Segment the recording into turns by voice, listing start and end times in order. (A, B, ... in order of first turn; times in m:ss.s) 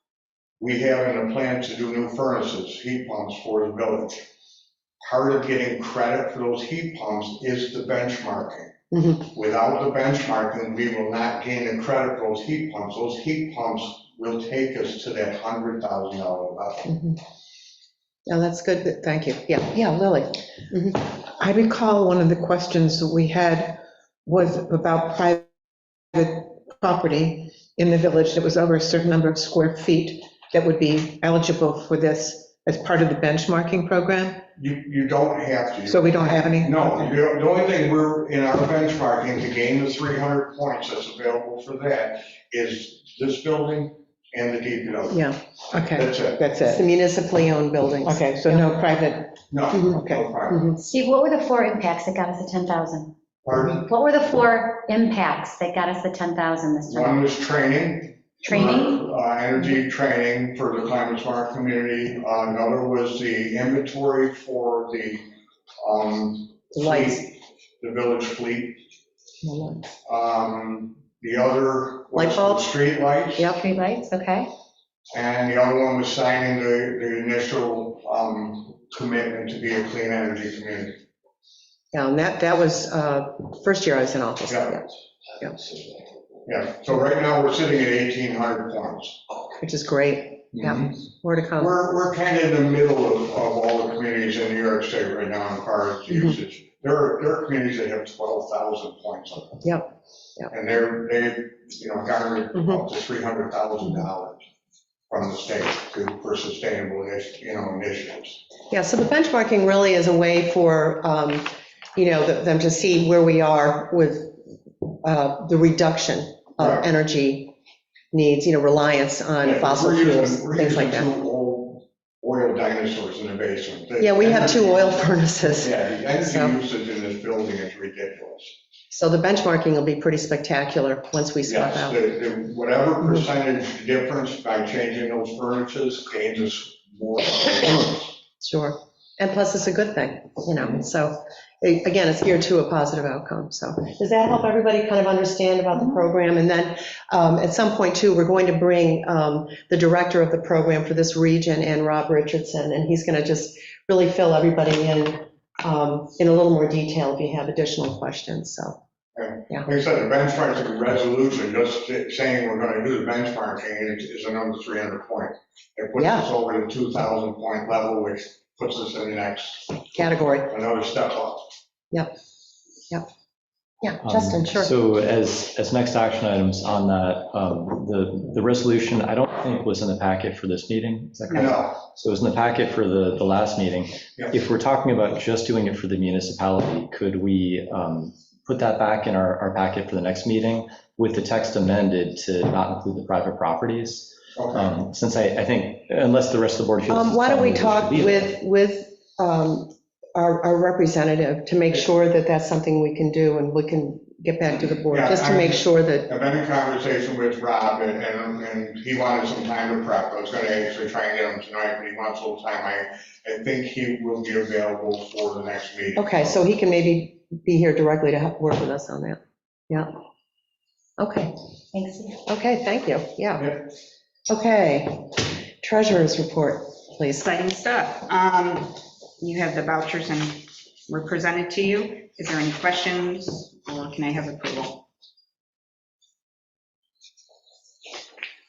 0:00.6-0:04.3 A
0:05.0-0:16.9 A
0:08.9-0:09.2 B
0:16.9-0:17.2 B
0:18.3-0:21.0 B
0:21.2-0:25.5 C
0:26.1-0:34.4 C
0:34.6-0:45.3 A
0:35.9-0:36.9 C
0:45.1-0:45.4 B
0:45.7-0:46.8 C
0:45.9-0:46.4 A
0:46.6-0:48.7 B
0:48.0-0:49.4 C
0:49.5-0:50.7 A
0:49.9-0:50.3 C
0:50.8-0:53.1 D
0:53.4-0:53.8 A
0:53.8-0:57.2 D
0:56.9-1:05.3 A
0:58.4-0:59.0 D
1:05.8-1:08.8 A
1:06.7-1:07.2 B
1:09.4-1:09.9 B
1:10.0-1:13.5 A
1:12.1-1:12.7 B
1:13.4-1:14.5 D
1:15.1-1:21.0 A
1:21.9-1:25.7 B
1:24.5-1:24.8 A
1:26.4-1:29.2 A
1:29.6-1:31.7 B
1:30.5-1:30.9 A
1:31.6-1:39.6 A
1:36.1-1:36.4 B
1:39.6-1:40.5 B
1:40.5-1:44.5 A
1:45.1-1:48.4 A
1:48.7-1:54.5 B
1:55.0-1:57.5 B
1:56.6-1:56.9 A
1:58.1-2:01.1 B
1:59.4-2:08.6 A
2:04.0-2:06.5 B
2:08.9-2:12.0 B
2:11.4-2:18.1 A
2:18.4-2:38.8 B
2:39.1-2:49.8 A
2:46.0-2:46.2 B
2:49.9-2:50.5 B
2:50.5-2:51.5 A
2:53.8-2:54.7 B
2:54.0-3:18.3 E
3:01.3-3:01.6 F
3:14.4-3:14.7 A
3:16.9-3:26.1 B
3:24.9-3:36.3 A
3:36.0-3:39.9 B
3:41.0-3:41.3 B
3:41.7-3:42.2 D
3:42.2-3:43.7 B
3:44.3-3:47.2 B
3:47.1-3:54.9 F